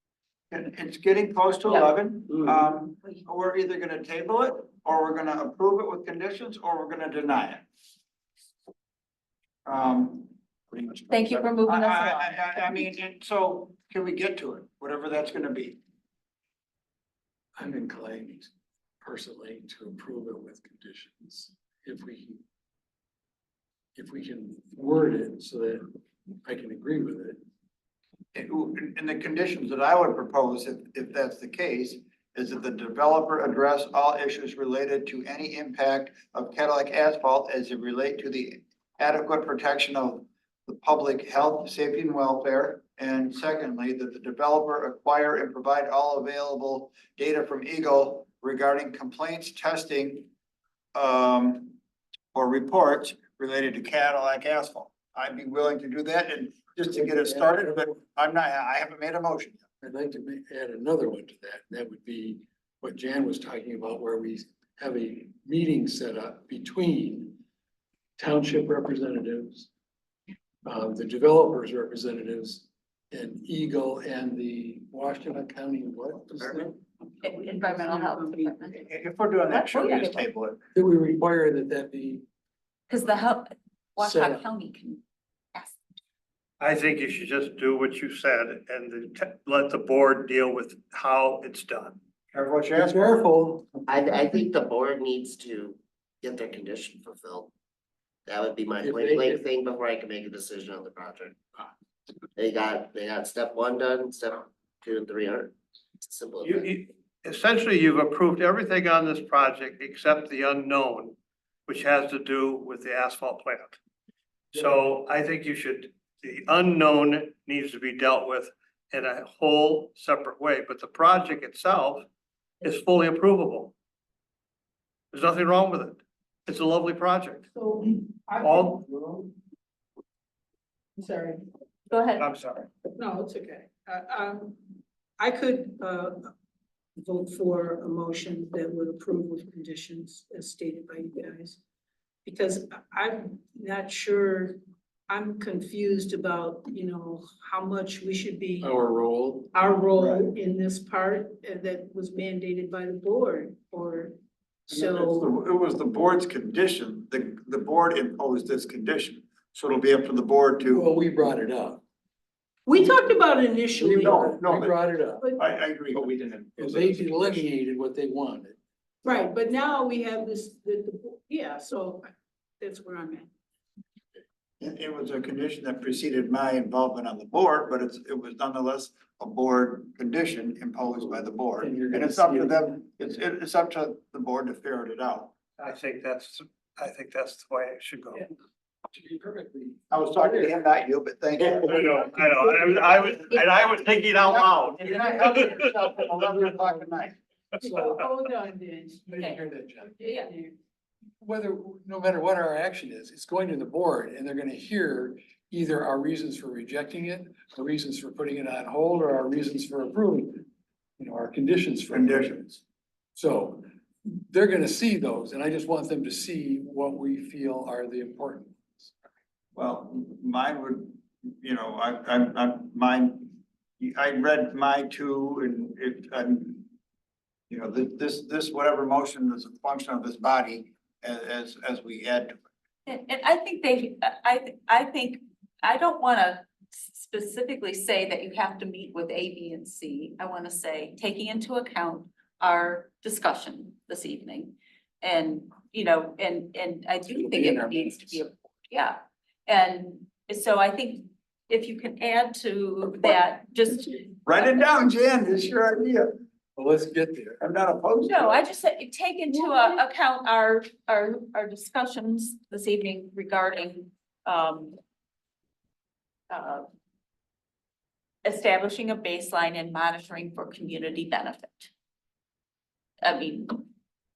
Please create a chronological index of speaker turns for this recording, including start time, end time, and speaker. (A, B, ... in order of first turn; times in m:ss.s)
0:00.5-0:07.6 A
0:01.7-0:01.9 B
0:09.6-0:15.8 A
0:11.1-0:12.5 B
0:17.5-0:22.4 C
0:23.9-0:25.8 C
0:26.4-0:27.4 C
0:28.3-0:50.3 A
0:50.9-0:51.8 A
0:52.3-0:59.6 A
0:56.9-0:57.9 C
0:59.8-1:07.4 C
1:08.2-1:09.7 C
1:10.6-1:16.8 C
1:17.2-1:18.9 D
1:17.2-1:18.8 B
1:18.9-1:20.6 A
1:19.5-1:20.2 B
1:20.7-1:22.2 C
1:22.9-1:25.0 B
1:24.0-1:24.5 C
1:25.5-1:25.8 B
1:26.6-1:32.0 E
1:32.3-1:33.2 A
1:32.8-1:34.3 C
1:33.9-1:37.5 F
1:38.2-1:38.8 F
1:38.8-1:39.5 C
1:39.4-1:41.3 F
1:42.4-1:46.5 F
1:46.4-1:51.2 E
1:51.7-1:53.8 E
1:54.5-2:02.0 E
2:02.6-2:03.7 E
2:05.1-2:07.5 E
2:07.5-2:09.3 D
2:08.4-2:08.8 E
2:11.0-2:11.4 D
2:11.9-2:12.3 B
2:12.2-2:12.7 E
2:13.0-2:16.3 D
2:17.0-2:21.6 D
2:22.2-2:28.7 D
2:28.6-2:29.5 C
2:29.5-2:34.2 D
2:30.0-2:30.2 A
2:34.7-2:40.9 A
2:34.7-2:35.3 D
2:40.7-2:41.8 C
2:42.7-2:44.3 D
2:43.7-2:45.3 C
2:44.0-2:44.8 A
2:45.4-2:47.4 A
2:46.6-2:48.6 C
2:49.0-2:53.3 D
2:54.6-3:05.3 A
3:01.0-3:02.6 C
3:05.6-3:08.2 E
3:08.9-3:10.5 C
3:09.9-3:12.0 A
3:11.4-3:15.6 E
3:14.2-3:17.1 A
3:17.6-3:19.2 D
3:17.6-3:18.0 C
3:19.1-3:19.9 C
3:20.0-3:20.5 D
3:20.0-3:20.3 B
3:21.2-3:30.4 C
3:31.0-3:32.4 C
3:31.9-3:32.6 A
3:33.1-3:38.9 C
3:39.6-3:46.7 A
3:47.5-3:52.4 A
3:52.8-4:14.5 B
4:07.1-4:08.2 C
4:14.2-4:16.1 A
4:16.6-4:17.4 C
4:17.4-4:18.4 A
4:18.1-4:24.8 B
4:19.3-4:19.8 D
4:26.3-4:26.7 B
4:28.2-4:31.7 B
4:33.0-4:33.6 B